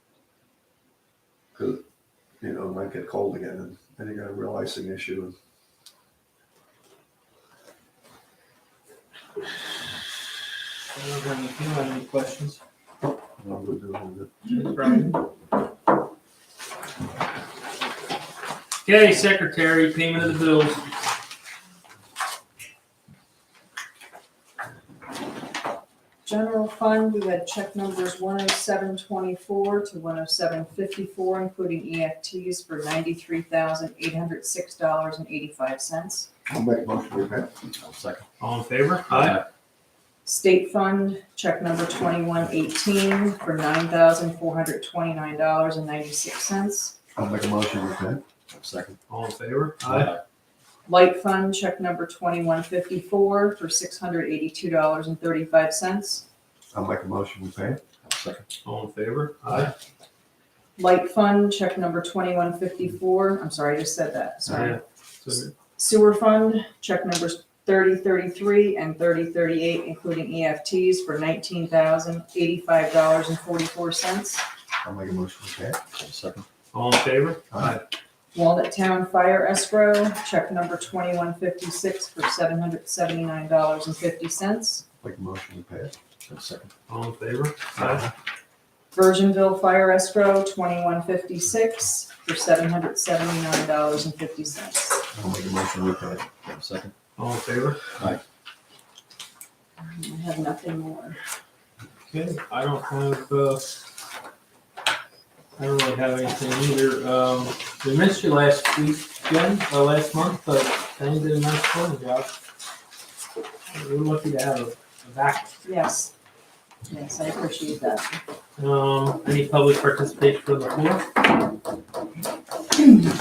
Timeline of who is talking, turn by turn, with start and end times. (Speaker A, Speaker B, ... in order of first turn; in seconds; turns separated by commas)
Speaker A: 1.6-1.8, Speaker A: 2.4-5.4, Speaker B: 10.9-12.6, Speaker A: 13.4-14.3, Speaker B: 14.5-15.2, Speaker B: 18.8-20.8, Speaker C: 26.2-36.3, Speaker A: 36.5-37.5, Speaker D: 37.7-38.2, Speaker B: 38.4-39.4, Speaker D: 39.1-39.5, Speaker C: 40.3-47.0, Speaker A: 47.2-48.2, Speaker D: 48.5-49.0, Speaker B: 49.1-50.1, Speaker D: 49.8-50.2, Speaker C: 50.9-56.2, Speaker A: 56.7-57.8, Speaker D: 58.0-58.5, Speaker B: 58.6-59.7, Speaker C: 60.8-64.8, Speaker B: 64.5-65.5, Speaker C: 65.8-74.4, Speaker A: 74.8-75.8, Speaker D: 76.0-76.5, Speaker B: 76.7-77.8, Speaker A: 77.5-77.8, Speaker C: 78.3-84.8, Speaker A: 85.0-85.9, Speaker D: 86.3-86.7, Speaker B: 86.9-88.0, Speaker A: 87.8-88.1, Speaker C: 88.9-95.0, Speaker A: 95.1-96.2, Speaker D: 96.5-96.9, Speaker B: 97.2-97.8, Speaker C: 99.8-101.2, Speaker B: 102.1-103.7, Speaker B: 105.6-112.3, Speaker B: 113.7-115.5, Speaker C: 115.7-116.1, Speaker C: 116.9-118.2, Speaker B: 118.6-121.1